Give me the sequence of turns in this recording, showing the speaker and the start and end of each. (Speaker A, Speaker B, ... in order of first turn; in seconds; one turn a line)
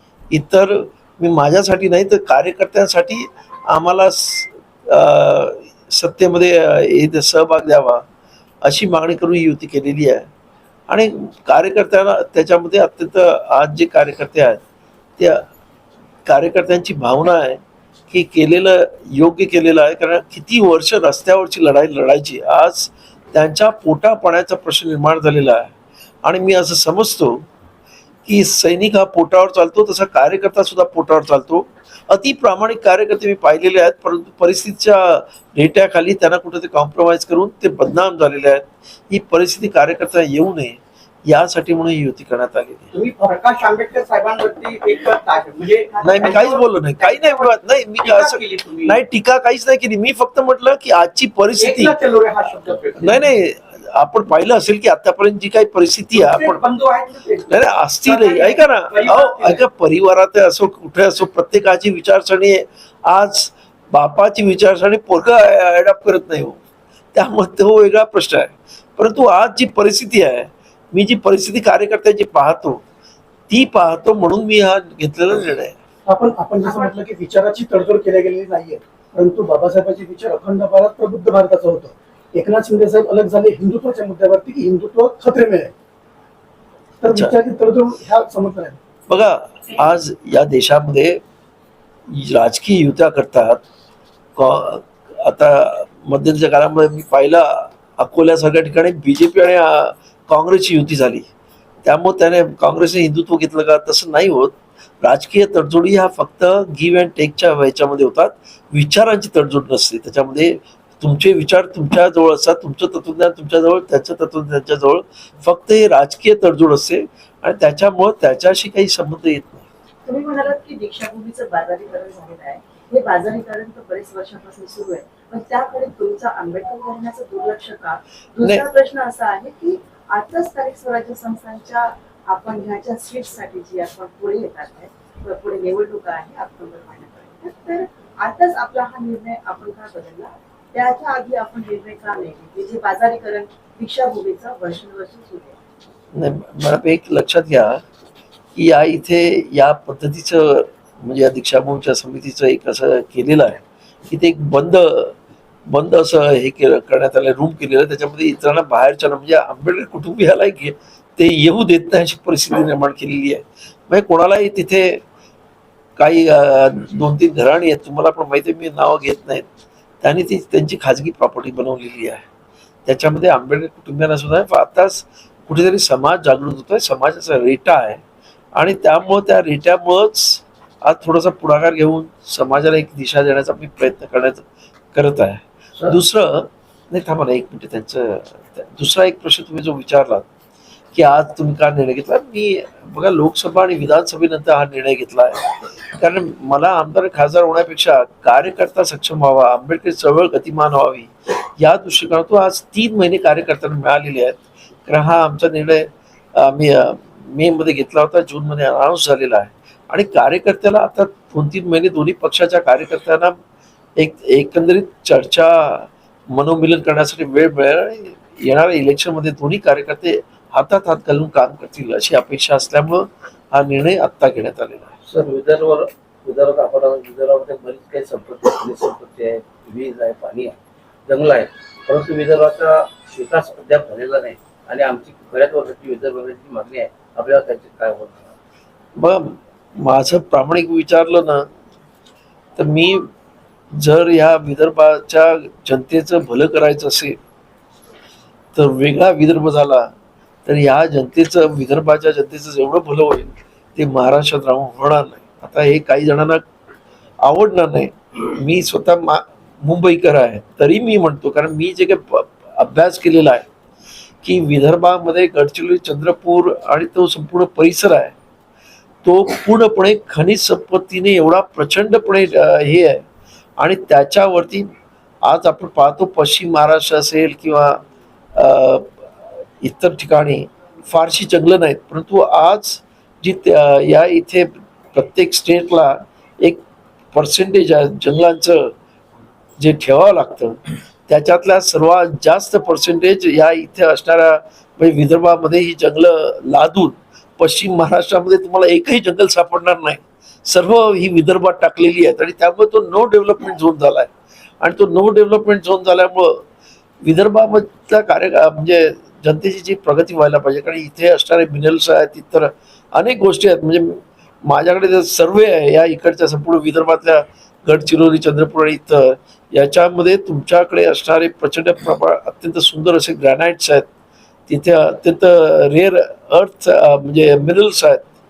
Speaker A: 0.3-8.1
Speaker A: 8.6-10.3
Speaker A: 10.9-14.6
Speaker A: 15.2-15.5
Speaker A: 16.3-25.7
Speaker A: 26.2-27.4
Speaker A: 28.2-42.9
Speaker B: 42.9-49.0
Speaker A: 46.0-51.9
Speaker B: 51.6-53.3
Speaker A: 53.0-56.6
Speaker B: 56.1-59.6
Speaker A: 57.5-66.6
Speaker A: 67.1-72.8
Speaker A: 73.5-75.8
Speaker C: 76.1-85.7
Speaker C: 87.0-88.8
Speaker A: 87.1-87.3
Speaker A: 89.1-91.2
Speaker A: 92.1-93.6
Speaker A: 94.4-101.3
Speaker A: 101.8-119.7
Speaker D: 120.0-145.6
Speaker A: 128.4-128.7
Speaker A: 146.1-147.8
Speaker A: 148.6-155.2
Speaker A: 155.7-165.0
Speaker A: 166.0-169.4
Speaker A: 170.0-172.2
Speaker A: 172.9-178.0
Speaker A: 178.6-190.3
Speaker A: 190.9-213.4
Speaker A: 214.0-224.9
Speaker E: 225.0-238.3
Speaker A: 239.0-241.5
Speaker A: 242.6-243.1
Speaker A: 243.8-247.2
Speaker A: 248.6-249.9
Speaker A: 250.4-256.4
Speaker A: 257.2-263.4
Speaker A: 264.2-268.1
Speaker A: 269.0-273.1
Speaker A: 273.6-274.7
Speaker A: 275.2-277.8
Speaker A: 278.4-279.0
Speaker A: 279.6-286.6
Speaker A: 287.1-288.7
Speaker A: 289.6-306.4
Speaker A: 307.0-323.9
Speaker A: 324.5-328.1